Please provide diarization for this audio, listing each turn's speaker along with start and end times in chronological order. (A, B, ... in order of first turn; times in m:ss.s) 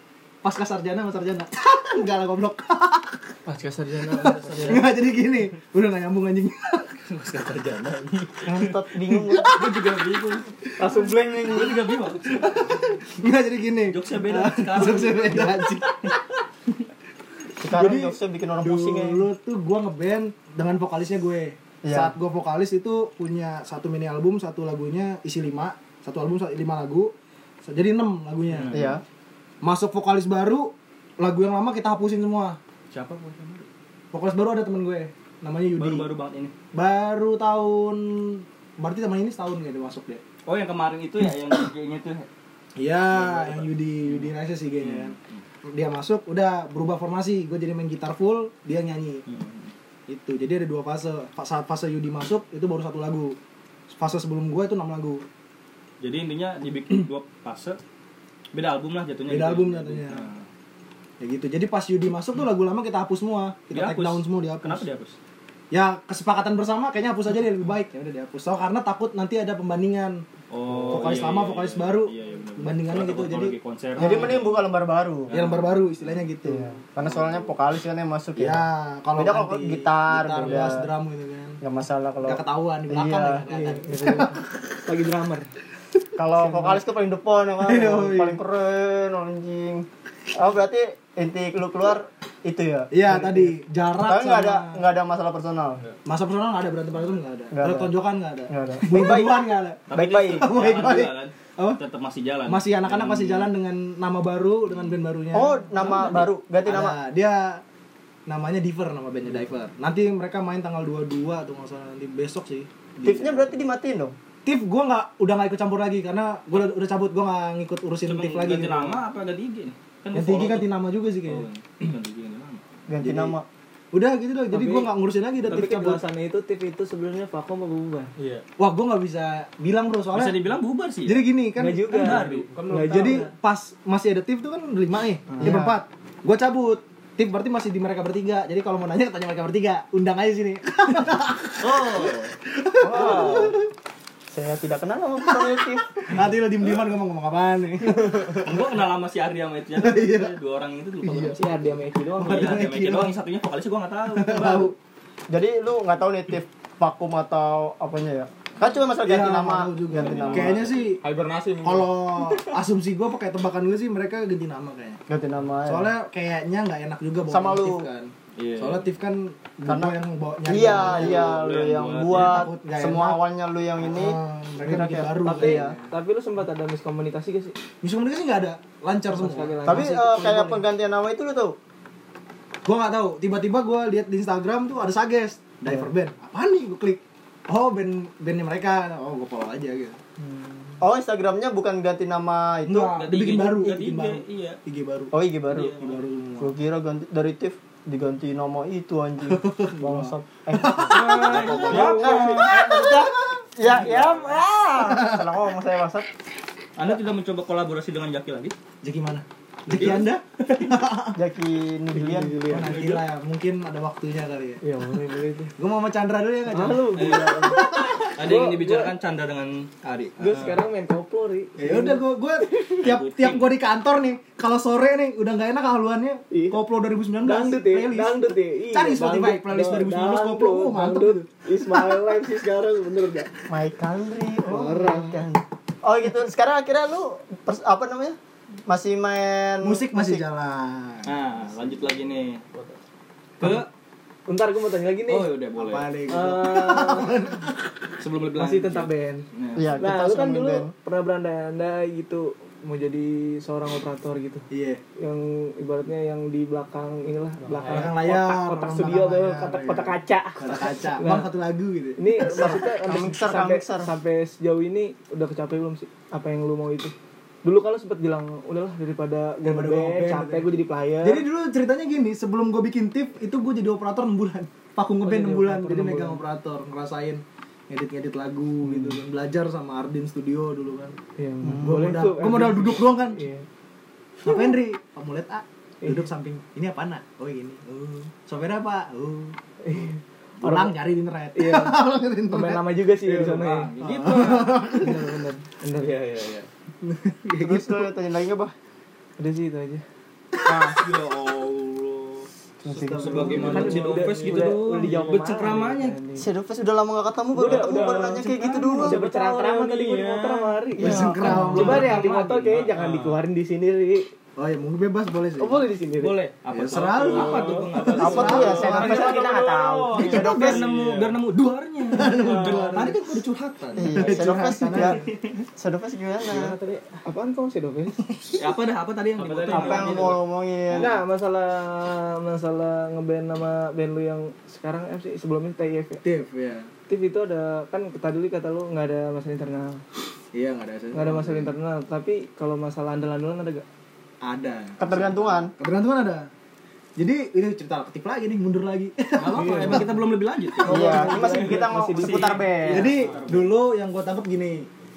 0:00.4-0:03.2 A
0:03.5-0:04.8 B
0:04.3-0:04.8 C
0:04.6-0:06.9 A
0:07.1-0:08.7 C
0:08.5-0:09.6 D
0:09.1-0:09.8 A
0:09.4-0:12.9 C
0:10.8-0:12.0 D
0:12.5-0:16.2 A
0:13.9-0:16.2 C
0:17.6-0:19.2 D
0:17.6-0:27.1 A
0:21.8-0:22.1 D
0:27.7-0:28.9 A
0:28.5-0:28.9 C
0:28.7-0:29.0 D
0:29.6-0:32.6 A
0:32.9-0:33.7 C
0:34.1-0:36.1 A
0:35.8-0:36.5 C
0:36.7-0:40.2 A
0:40.5-0:42.3 C
0:42.8-0:49.2 A
0:43.1-0:45.2 C
0:49.3-0:49.7 C
0:50.1-0:53.4 A
0:53.9-0:55.2 A
0:56.0-0:57.8 C
0:58.5-1:00.4 C
0:59.3-1:00.3 A
1:01.2-1:04.9 A
1:03.7-1:05.2 C
1:05.7-1:14.4 A
1:10.5-1:14.7 C
1:14.0-1:15.3 D
1:15.3-1:16.2 C
1:15.3-1:16.8 A
1:16.4-1:20.9 D
1:17.0-1:17.6 C
1:18.4-1:21.6 A
1:21.6-1:23.8 D
1:22.2-1:24.3 A
1:23.8-1:25.5 B
1:26.2-1:33.4 D
1:26.4-1:26.8 A
1:27.6-1:28.4 A
1:32.9-1:34.8 A
1:34.0-1:35.8 D
1:36.0-1:41.8 A
1:37.5-1:37.9 D
1:38.5-1:40.6 D
1:39.9-1:43.5 C
1:42.5-1:47.6 A
1:44.7-1:45.0 C
1:45.3-1:47.0 D
1:45.8-1:46.2 C
1:48.3-1:53.1 A
1:53.0-1:54.2 D
1:53.0-1:53.5 C
1:54.4-1:59.0 A
1:58.0-2:02.6 C
2:00.1-2:01.5 A
2:02.9-2:03.4 D
2:03.0-2:03.4 A
2:03.9-2:06.0 A
2:04.5-2:04.9 B
2:05.4-2:08.1 B
2:08.2-2:08.4 E
2:08.6-2:10.4 A
2:10.1-2:11.3 C
2:11.0-2:12.1 A
2:11.6-2:13.3 B
2:11.9-2:12.5 C
2:12.0-2:13.3 E
2:12.8-2:23.6 A
2:15.3-2:15.7 B
2:15.4-2:15.7 D
2:21.6-2:22.3 C
2:22.8-2:23.6 D
2:24.3-2:26.2 D
2:25.3-2:28.5 A
2:27.9-2:28.4 D
2:28.4-2:31.4 C
2:29.8-2:30.3 A
2:31.0-2:31.4 A
2:31.3-2:32.7 B
2:32.2-2:33.2 A
2:32.2-2:34.7 C
2:34.1-2:34.7 A
2:35.3-2:40.7 D
2:39.0-2:41.0 A
2:39.9-2:40.9 C
2:41.0-2:41.9 E
2:41.6-2:45.0 A
2:45.1-2:45.9 D
2:45.7-2:51.4 A
2:47.3-2:47.8 D
2:48.4-2:48.9 C
2:49.7-2:49.9 D
2:50.4-2:55.8 D
2:50.6-2:52.5 C
2:52.1-2:53.2 A
2:53.8-2:55.8 A
2:55.2-2:57.6 B
2:57.8-3:00.6 A
2:59.1-3:00.5 B
2:59.6-3:01.6 D
3:02.6-3:10.0 A
3:10.2-3:10.8 B
3:10.8-3:13.0 D
3:12.6-3:15.1 A
3:13.0-3:14.6 C
3:15.1-3:15.8 D
3:15.5-3:16.0 C
3:15.7-3:16.6 A
3:16.4-3:26.1 D
3:19.3-3:23.3 A
3:20.9-3:22.8 C
3:23.7-3:24.4 C
3:24.8-3:25.2 A
3:26.8-3:28.6 C
3:28.8-3:31.2 A
3:29.7-3:30.1 C
3:31.2-3:32.5 D
3:31.9-3:32.8 B
3:32.5-3:34.6 A
3:32.6-3:33.0 C
3:34.6-3:35.5 B
3:35.6-3:38.1 A
3:36.5-3:38.9 B
3:36.9-3:40.6 C
3:40.2-3:42.0 B
3:41.6-3:51.3 A
3:42.8-3:43.5 C
3:46.3-3:46.6 B
3:47.2-3:53.3 B
3:53.5-4:00.2 D
3:54.5-3:55.2 B
3:59.6-4:01.1 A
4:01.0-4:02.4 C
4:03.4-4:03.7 C
4:04.3-4:05.3 B
4:05.1-4:05.9 C
4:05.6-4:07.7 A
4:06.1-4:07.2 B
4:08.0-4:09.8 C
4:08.4-4:09.3 B
4:09.6-4:10.7 D
4:09.8-4:14.5 B
4:14.5-4:14.8 A
4:15.0-4:21.3 B
4:17.6-4:17.8 E
4:17.6-4:22.6 A
4:22.0-4:26.9 B
4:22.2-4:23.9 D
4:27.4-4:31.2 B
4:29.4-4:41.0 A
4:35.0-4:36.2 B
4:38.6-4:39.0 B
4:41.2-4:43.5 B
4:41.6-4:43.2 A
4:44.2-4:49.4 A
4:49.6-4:50.8 B
4:50.4-4:53.3 A
4:51.3-4:53.7 B
4:53.1-4:54.6 C
4:53.8-4:55.0 A
4:54.5-4:56.5 B
4:56.8-4:57.9 A
4:57.4-4:58.5 D
4:59.2-4:59.8 B
5:00.5-5:00.7 A
5:00.8-5:02.3 C
5:02.7-5:03.7 D
5:02.7-5:04.0 A
5:02.9-5:06.3 B
5:02.9-5:06.0 C
5:03.4-5:05.3 E
5:06.2-5:11.8 D
5:07.4-5:14.1 B
5:07.5-5:08.7 C
5:10.8-5:12.1 A
5:11.2-5:13.1 C
5:12.8-5:13.1 E
5:14.4-5:15.7 A
5:15.4-5:16.2 B
5:16.0-5:19.2 C
5:16.5-5:19.1 A
5:16.9-5:19.7 B
5:17.1-5:21.1 E
5:18.0-5:20.6 D
5:19.9-5:25.1 C
5:21.9-5:23.2 A
5:22.3-5:22.6 B
5:23.7-5:25.0 A
5:23.8-5:25.0 D
5:25.6-5:26.6 D
5:26.2-5:28.0 B
5:28.1-5:28.4 A
5:28.4-5:30.9 C
5:29.2-5:30.2 E
5:29.5-5:31.0 D
5:30.8-5:36.0 B
5:36.0-5:36.7 A
5:36.9-5:39.8 B
5:40.3-5:41.5 A
5:40.9-5:43.6 B
5:44.2-5:46.3 A
5:44.8-5:45.5 D
5:47.0-5:50.0 A
5:49.2-5:53.6 C
5:49.2-5:50.0 B
5:50.6-5:52.7 B
5:50.6-5:52.9 D
5:52.7-5:54.7 A